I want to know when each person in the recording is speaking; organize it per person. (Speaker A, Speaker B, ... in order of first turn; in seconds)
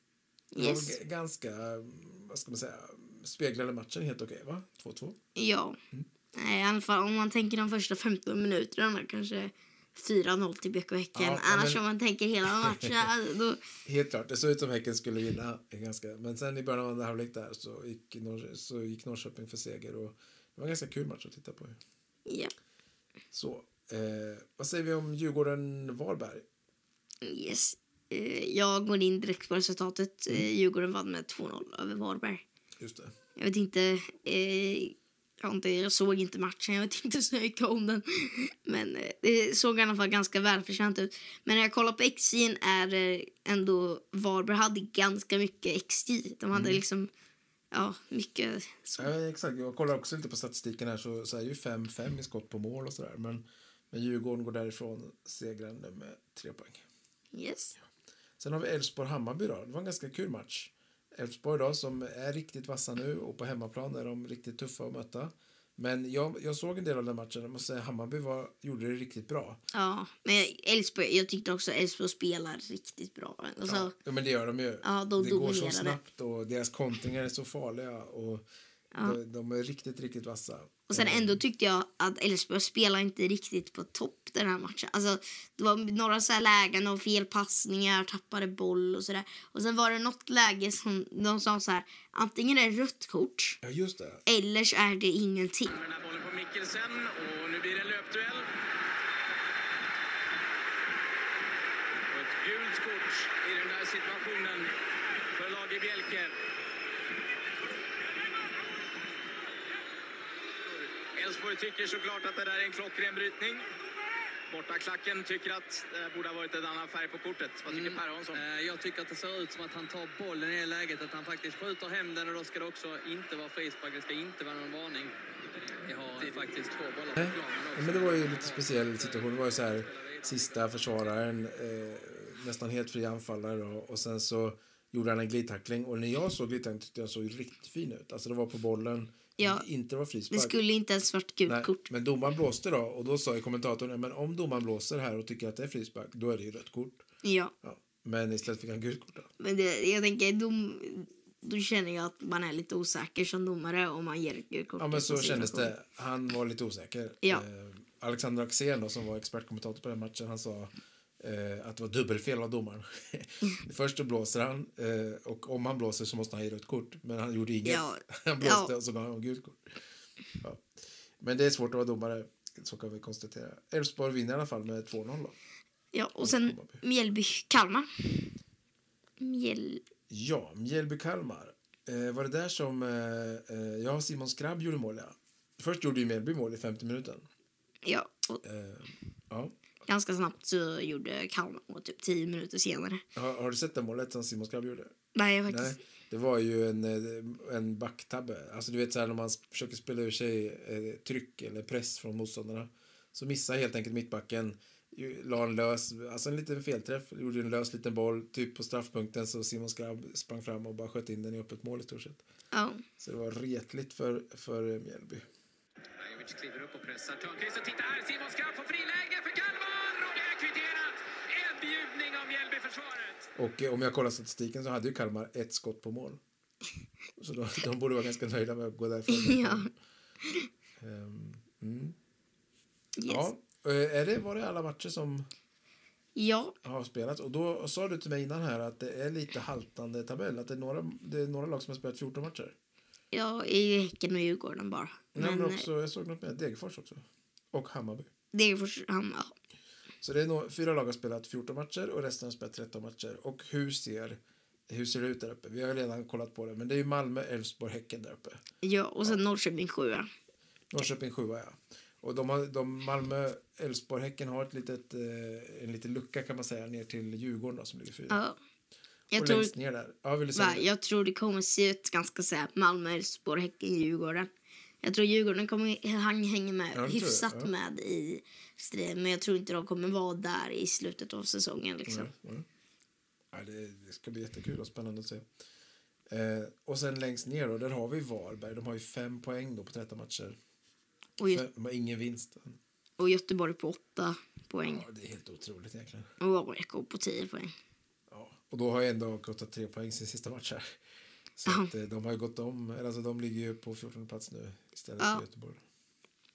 Speaker A: 0.5-0.9, 5.3-5.8, 6.3-13.6, 27.2-32.4, 33.4-47.1, 47.7-49.1, 57.3-57.7, 69.7-73.9, 74.8-76.0, 80.9-93.6, 94.2-95.7, 139.4-139.6, 140.3-141.9, 147.2-147.5, 149.4-155.7, 167.6-168.7, 175.9-178.3, 179.2-179.8, 187.8-188.4, 189.8-193.0, 195.1-195.8, 212.5-212.8, 229.1-229.7, 233.0-233.3, 236.2-236.6, 243.1-245.7, 248.3-249.3, 258.6-260.1, 268.1-268.4, 269.1-269.5, 270.3-274.3, 274.8-282.1, 291.2-291.4, 293.0-294.8, 296.2-297.5
Speaker B: 0.6-5.2, 11.1-11.8, 12.4-13.1, 13.8-21.8, 23.3-26.4, 32.8-33.1, 46.5-46.8, 49.0-56.8, 58.4-69.6, 73.6-78.4, 79.0-81.4, 93.6-94.2, 127.2-140.6, 141.4-147.0, 147.6-149.3, 154.8-169.8, 170.4-170.7, 171.2-175.3, 176.2-176.8, 180.1-187.3, 188.4-189.5, 193.2-194.9, 195.5-212.2, 213.0-215.2, 223.3-226.2, 227.2-229.7, 230.8-232.0, 233.1-235.3, 236.6-242.6, 245.1-248.1, 250.0-258.4, 260.7-268.2, 269.1-270.6, 276.7-277.5, 281.9-282.4, 283.3-285.2, 286.1-290.4, 291.2-292.6, 294.6-296.1, 298.1-300.8, 301.4-305.6
Speaker C: 95.7-98.5, 102.1-104.7, 105.3-106.3, 110.7-113.7, 114.5-118.4, 126.1-126.5, 216.0-223.3
Speaker D: 117.7-125.1, 125.8-130.7